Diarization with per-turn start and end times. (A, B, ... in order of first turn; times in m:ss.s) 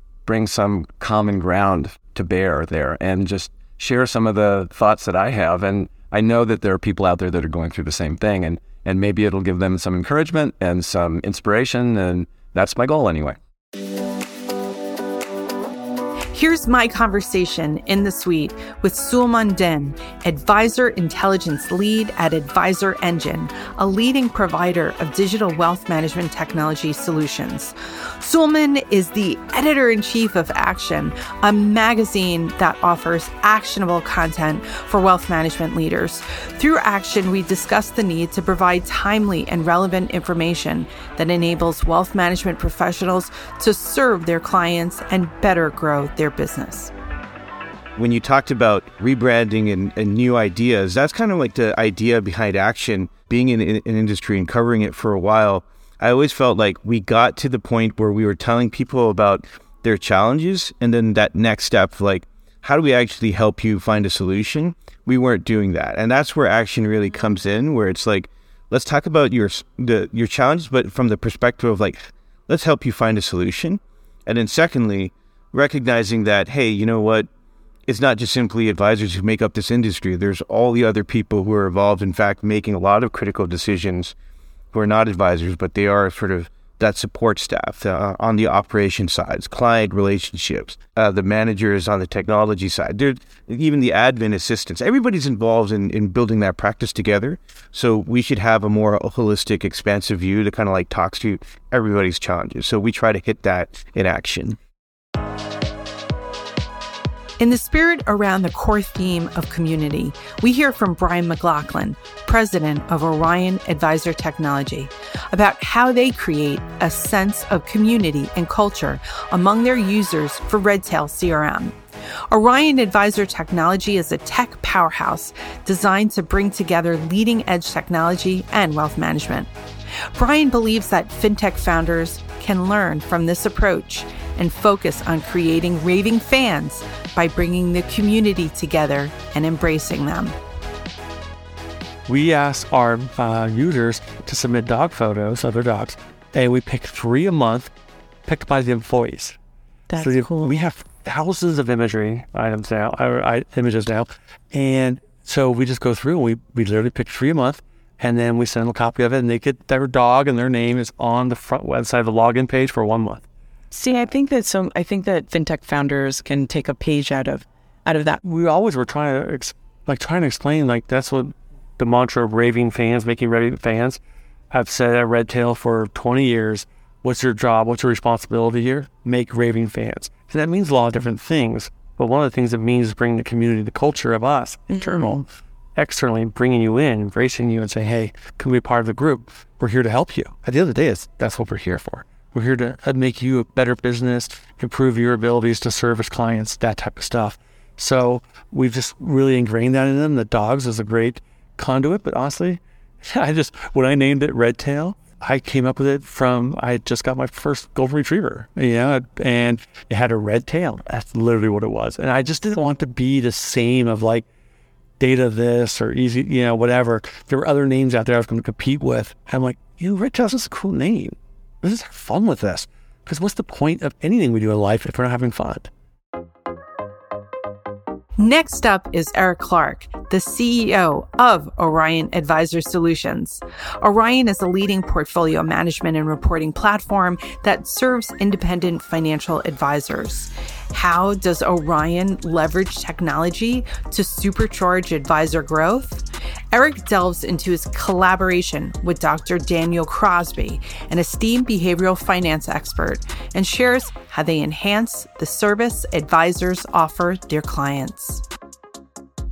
0:00.2-0:13.4 A
0:16.3-0:46.9 B
0:48.0-1:12.0 C
1:12.5-1:17.3 C
1:17.9-1:24.0 C
1:24.7-1:33.1 C
1:38.5-1:41.1 C
1:42.2-1:42.7 C
1:47.4-2:01.8 B
2:02.3-2:09.5 B
2:10.1-2:20.4 B
2:22.1-2:27.7 D
2:28.2-2:29.4 D
2:29.9-2:30.6 E
2:29.9-2:43.2 D
2:43.7-2:48.2 E
2:48.2-2:54.0 D
2:54.5-3:34.2 D
3:04.7-3:05.1 E
3:35.0-3:45.7 D
3:48.2-4:18.2 B